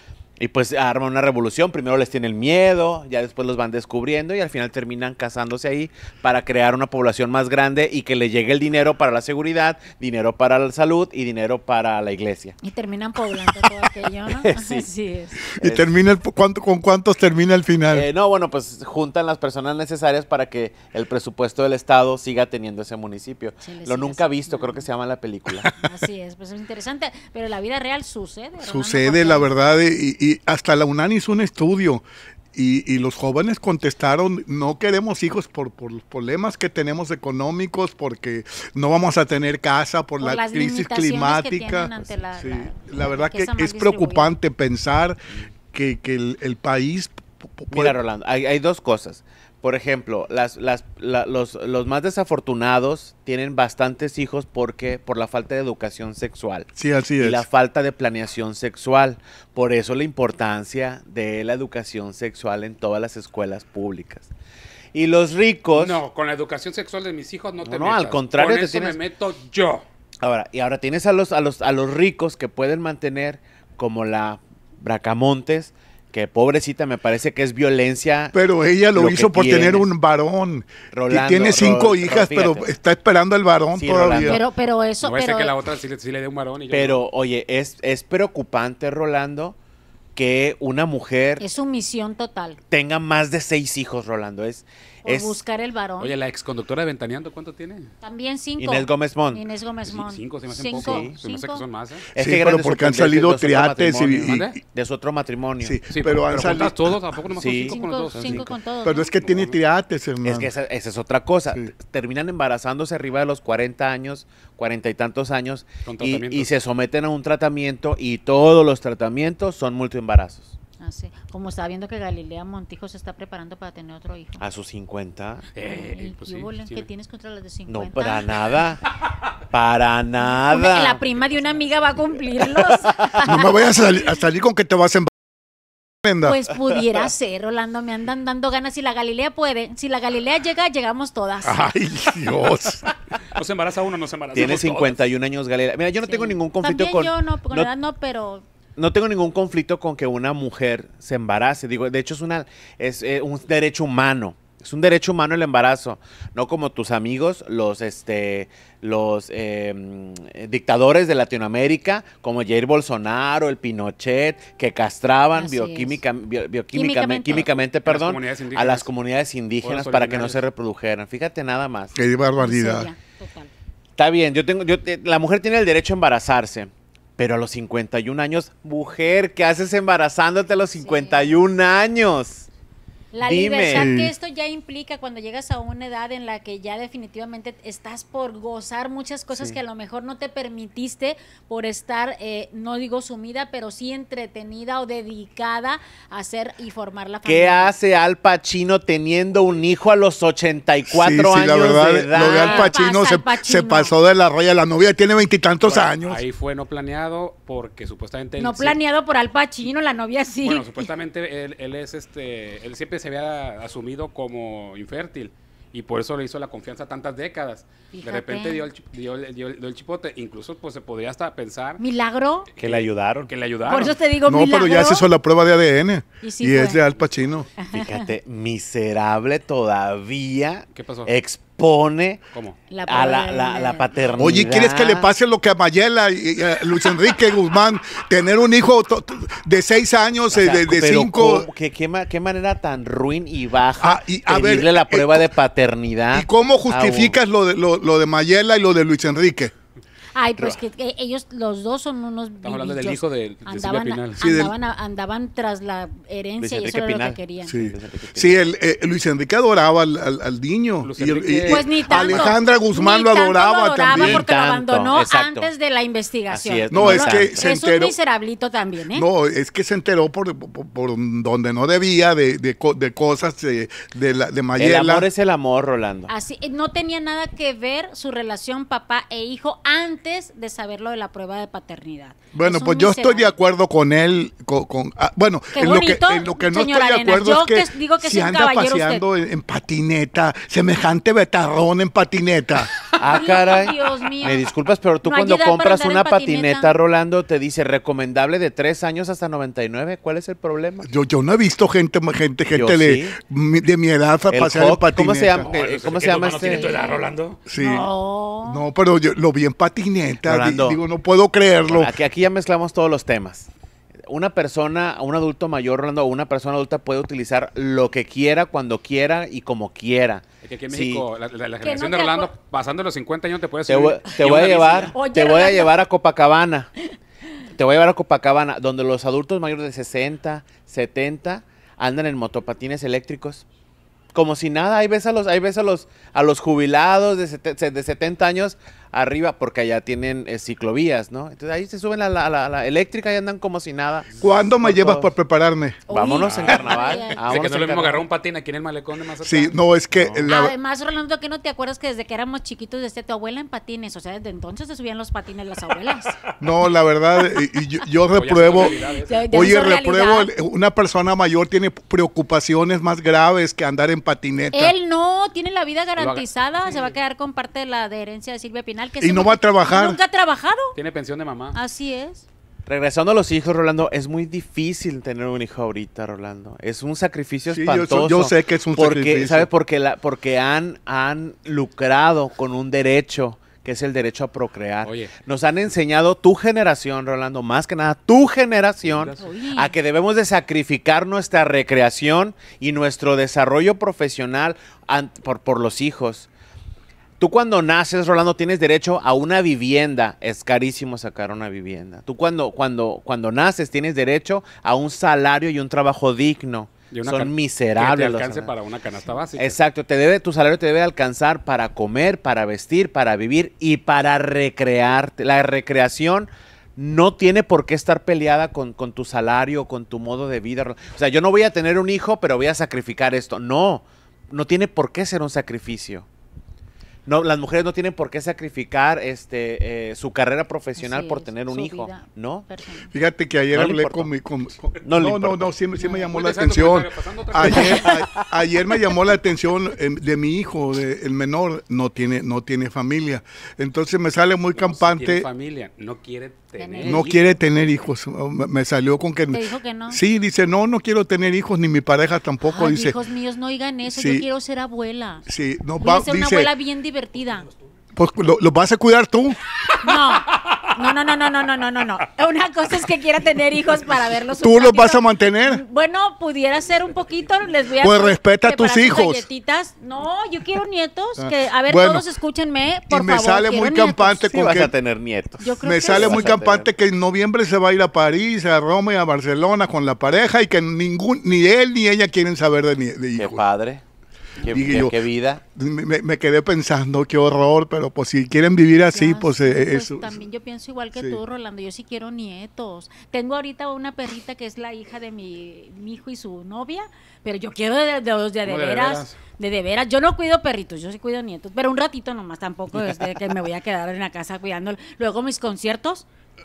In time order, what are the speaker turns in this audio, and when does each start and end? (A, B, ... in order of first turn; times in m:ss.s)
0:00.4-0:12.6 A
0:12.6-0:15.4 B
0:14.3-0:14.9 A
0:15.5-0:18.1 C
0:15.6-0:15.9 A
0:17.9-0:25.7 A
0:23.6-0:24.9 B
0:25.6-0:25.9 C
0:25.8-0:29.5 B
0:28.6-0:45.2 C
0:40.2-0:44.3 B
0:45.7-0:48.0 C
0:47.7-1:04.3 A
0:56.8-0:57.5 C
1:04.9-1:06.0 A
1:05.7-1:09.8 D
1:07.6-1:09.0 A
1:10.2-1:18.4 A
1:18.3-1:24.4 C
1:18.9-1:19.9 A
1:20.9-1:22.7 A
1:23.7-1:24.4 A
1:24.2-1:25.5 B
1:25.0-1:27.0 D
1:26.7-1:29.6 A
1:30.2-1:31.4 A
1:31.4-1:32.6 B
1:32.7-1:35.4 A
1:35.0-1:36.1 B
1:36.0-1:37.9 D
1:38.0-1:41.6 B
1:38.6-1:39.4 A
1:39.8-1:42.0 D
1:40.7-1:41.2 A
1:42.1-1:45.8 A
1:42.2-1:44.6 C
1:44.2-1:44.6 D
1:45.6-1:47.0 C
1:45.9-1:48.5 D
1:47.4-1:48.5 A
1:47.6-1:49.1 B
1:48.8-1:50.5 C
1:49.1-1:49.6 D
1:50.2-2:00.6 A
1:55.8-1:56.5 D
2:00.8-2:04.4 B
2:04.4-2:05.5 A
2:05.6-2:06.9 D
2:05.6-2:08.2 B
2:07.7-2:08.9 A
2:09.5-2:11.0 A
2:10.2-2:13.9 B
2:12.4-2:13.1 A
2:13.3-2:15.1 C
2:16.0-2:16.4 C
2:16.2-2:21.7 B
2:21.4-2:22.9 C
2:23.2-2:25.0 D
2:24.3-2:27.7 A
2:26.0-2:28.4 B
2:28.8-2:52.0 A
2:45.4-2:46.0 B
2:46.7-2:47.5 B
2:47.8-2:48.9 D
2:49.6-2:50.4 D
2:52.0-2:52.9 C
2:52.4-2:53.5 B
2:54.0-3:02.5 A
3:00.8-3:01.3 B
3:03.1-3:17.7 B
3:03.2-3:03.9 A
3:03.7-3:04.1 C
3:17.2-3:22.7 A
3:20.9-3:26.2 C
3:22.2-3:23.9 B
3:25.6-3:28.8 D
3:28.4-3:30.9 B
3:30.4-3:41.8 D
3:37.9-3:38.7 B
3:41.8-3:42.5 B
3:42.6-3:44.0 D
3:42.6-3:43.3 A
3:43.7-3:45.1 B
3:44.2-3:47.5 C
3:46.2-3:46.8 B
3:47.0-3:47.3 D
3:47.6-3:48.1 B
3:47.7-3:52.2 A
3:50.8-3:51.1 D
3:52.3-3:52.6 D
3:52.7-3:53.9 B
3:52.9-3:55.1 A
3:54.2-4:01.5 C
4:00.3-4:07.2 A
4:03.8-4:05.4 C
4:06.1-4:09.5 C
4:10.2-4:17.5 B
4:12.4-4:14.2 D
4:14.2-4:14.5 C
4:16.4-4:18.4 A
4:17.5-4:24.3 C
4:20.8-4:22.3 D
4:21.5-4:29.1 B
4:23.9-4:25.5 A
4:26.3-4:27.5 A
4:26.7-4:28.0 C
4:28.9-4:35.1 C
4:34.6-4:36.1 A
4:36.1-4:43.3 B
4:42.3-4:52.7 C
4:45.5-4:49.0 B
4:53.0-5:00.9 A
4:53.0-4:54.5 B
4:55.0-4:56.7 B
5:00.8-5:05.5 C
5:02.5-5:03.2 A
5:04.3-5:06.8 A
5:05.4-5:07.4 D
5:06.4-5:07.0 B
5:07.5-5:07.9 C
5:07.6-5:08.6 B
5:08.4-5:11.9 C
5:10.2-5:10.8 A
5:11.7-5:13.5 A
5:14.0-5:21.1 A
5:20.4-5:24.9 D
5:21.6-5:22.3 B
5:23.7-5:26.7 A
5:24.9-5:25.8 B
5:27.5-5:33.5 A
5:34.1-5:45.1 A
5:44.2-5:45.8 C
5:45.9-5:47.2 B
5:45.9-5:48.0 A
5:46.2-5:50.3 D
5:49.2-5:50.6 C
5:50.3-5:56.2 B
5:56.4-5:58.8 C
5:58.1-5:59.4 D
5:58.5-6:00.3 B
5:59.3-6:04.8 C
6:04.5-6:10.7 B
6:06.0-6:07.0 D
6:09.0-6:10.0 C
6:10.8-6:11.6 D
6:11.5-6:12.3 B
6:12.7-6:36.3 A
6:17.5-6:19.5 C
6:24.8-6:25.1 D
6:28.8-6:29.2 D
6:29.2-6:29.7 B
6:37.2-6:48.5 A
6:46.9-6:49.6 D
6:49.4-7:06.1 A
7:07.1-7:12.5 A
7:10.8-7:12.9 B
7:12.9-7:25.3 C
7:13.5-7:14.1 A
7:14.8-7:15.5 A
7:15.8-7:16.0 B
7:16.0-7:18.0 D
7:17.5-7:17.9 B
7:24.6-7:27.4 D
7:26.6-7:27.1 B
7:26.8-7:33.0 C
7:29.3-7:30.0 B
7:32.4-7:35.3 B
7:33.9-7:34.3 C
7:35.3-7:36.5 C
7:35.8-7:37.5 B
7:38.0-7:39.4 C
7:39.8-7:54.2 B
7:44.4-7:45.6 C
7:47.8-7:49.3 C
7:51.2-7:52.1 C
7:52.9-7:54.7 C
7:54.3-7:56.7 A
7:55.4-7:56.3 B
7:55.6-8:03.4 C
8:03.2-8:03.8 A
8:04.4-8:05.4 A
8:04.4-8:05.0 C
8:05.5-8:10.2 C
8:08.9-8:26.0 B
8:11.0-8:11.2 C
8:18.4-8:19.2 D